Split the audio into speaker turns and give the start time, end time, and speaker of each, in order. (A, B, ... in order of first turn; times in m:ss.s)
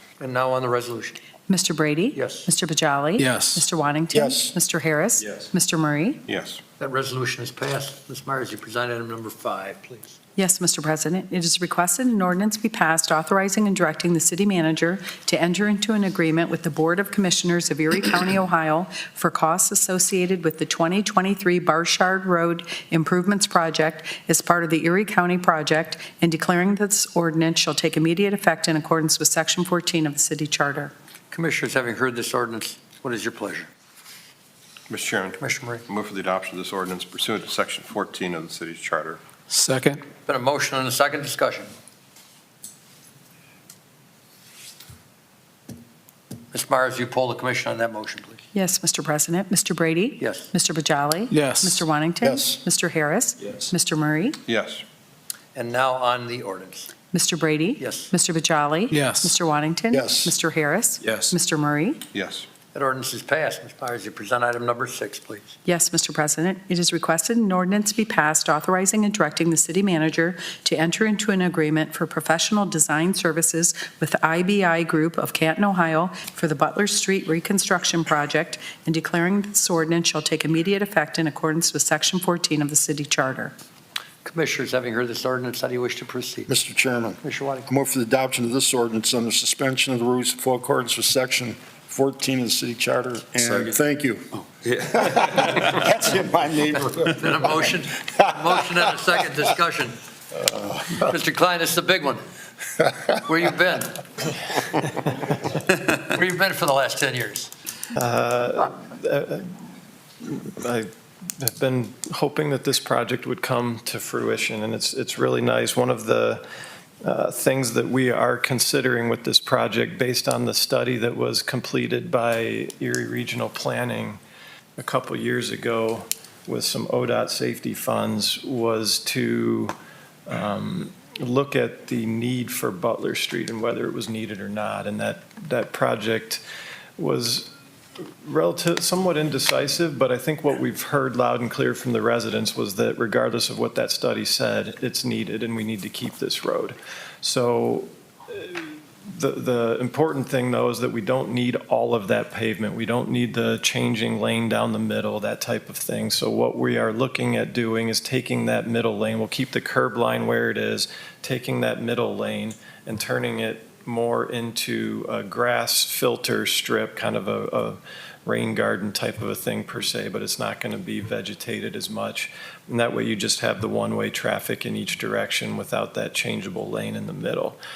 0:00.2-0:01.2 A
0:01.5-0:06.2 B
0:02.1-0:02.5 A
0:03.2-0:03.6 C
0:04.1-0:04.5 D
0:06.3-0:06.6 E
0:06.8-0:10.2 A
0:10.4-0:30.9 B
0:31.3-0:33.7 A
0:34.9-0:39.2 E
0:35.4-0:35.8 A
0:39.5-0:40.0 C
0:40.2-0:41.7 A
0:46.5-0:48.4 A
0:48.5-0:54.4 B
0:50.2-0:50.5 A
0:51.3-0:51.8 C
0:52.2-0:52.6 D
0:54.5-0:54.8 E
0:55.5-0:56.9 A
0:57.1-1:02.0 B
0:57.8-0:58.1 A
0:58.9-0:59.3 C
0:59.9-1:00.3 D
1:02.1-1:02.5 E
1:02.7-1:05.5 A
1:05.6-1:23.5 B
1:24.2-1:26.5 A
1:26.5-1:37.5 D
1:27.2-1:27.6 A
1:36.8-1:40.0 A
1:40.9-1:42.2 A
1:43.1-1:44.0 A
1:45.5-1:47.5 A
1:47.9-1:49.5 F
1:50.2-1:56.4 F
1:57.0-2:04.2 F
2:04.8-2:09.7 F
2:10.3-2:16.4 F
2:17.0-2:17.5 F
2:18.2-2:57.6 F